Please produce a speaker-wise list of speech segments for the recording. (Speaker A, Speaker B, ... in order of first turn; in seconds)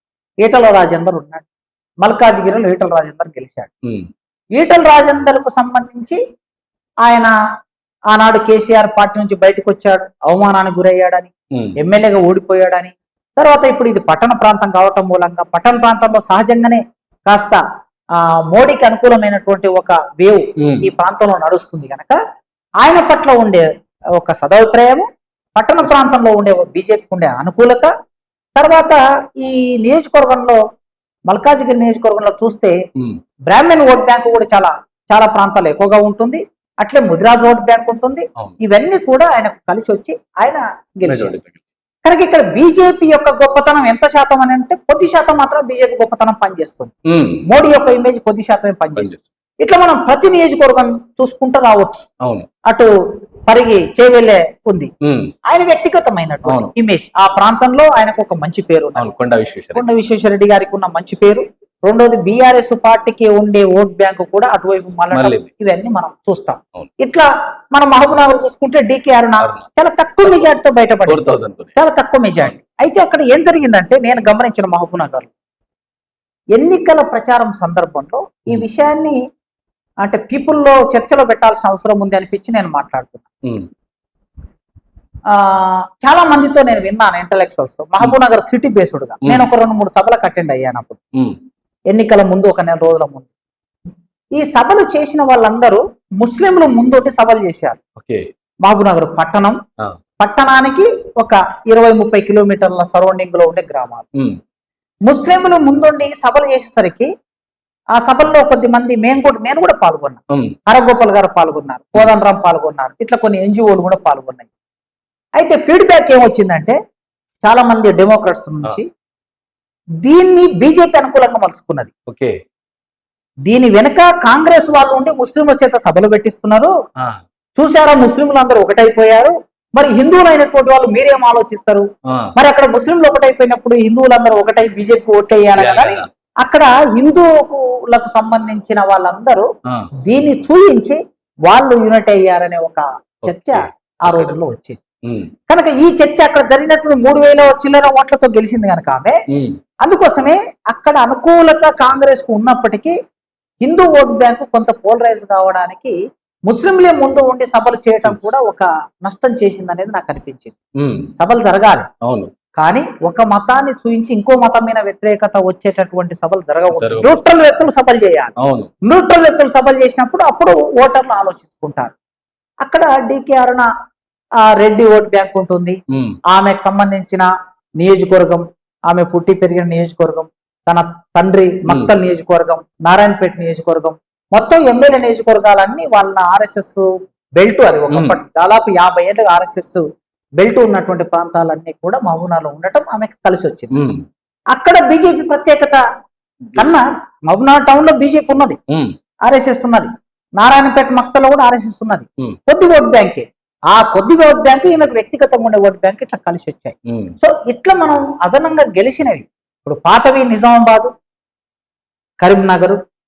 Speaker A: 0.4-1.4, 2.0-3.7, 4.6-6.2, 7.0-7.3, 8.1-17.6, 18.2-22.2, 22.8-23.6, 24.2-27.9, 28.6-30.6, 31.3-32.7, 33.5-41.3, 42.0-46.9, 47.5-52.1, 53.5-54.9, 55.5-59.1, 59.7-75.3, 76.5-79.2, 80.0-83.2, 85.3-91.0, 91.9-93.3, 94.3-97.8, 98.6-99.6, 100.2-104.0, 105.1-107.1, 107.9-114.5, 115.4-116.8, 117.4-118.9, 120.0-121.9, 123.5-126.7, 127.5-131.8, 132.3-139.5, 140.1-144.8, 145.5-149.2, 149.8-152.9, 153.6-155.9, 156.5-160.6, 161.2-161.9, 162.6-168.3, 168.8-171.9, 172.6-173.7, 174.4-175.8, 176.3-177.3, 177.8-186.8, 187.4-189.8, 190.4-193.8, 194.5-195.8, 196.5-198.6, 199.2-210.9, 212.2-212.8
Speaker B: 20.6-20.9, 41.1-41.6, 47.1-47.4, 49.0-49.2, 55.0-55.3, 56.5-56.7, 59.0-59.9, 65.1-65.5, 69.4-69.7, 71.1-71.8, 98.0-98.2, 122.1-122.3, 135.6-136.1, 143.2-144.3, 145.0-145.3, 160.8-161.1, 162.0-162.3, 166.7-167.2, 168.4-168.7, 175.9-176.2, 181.7-181.9, 187.9-188.2, 193.7-194.0, 198.7-198.9, 206.9-207.1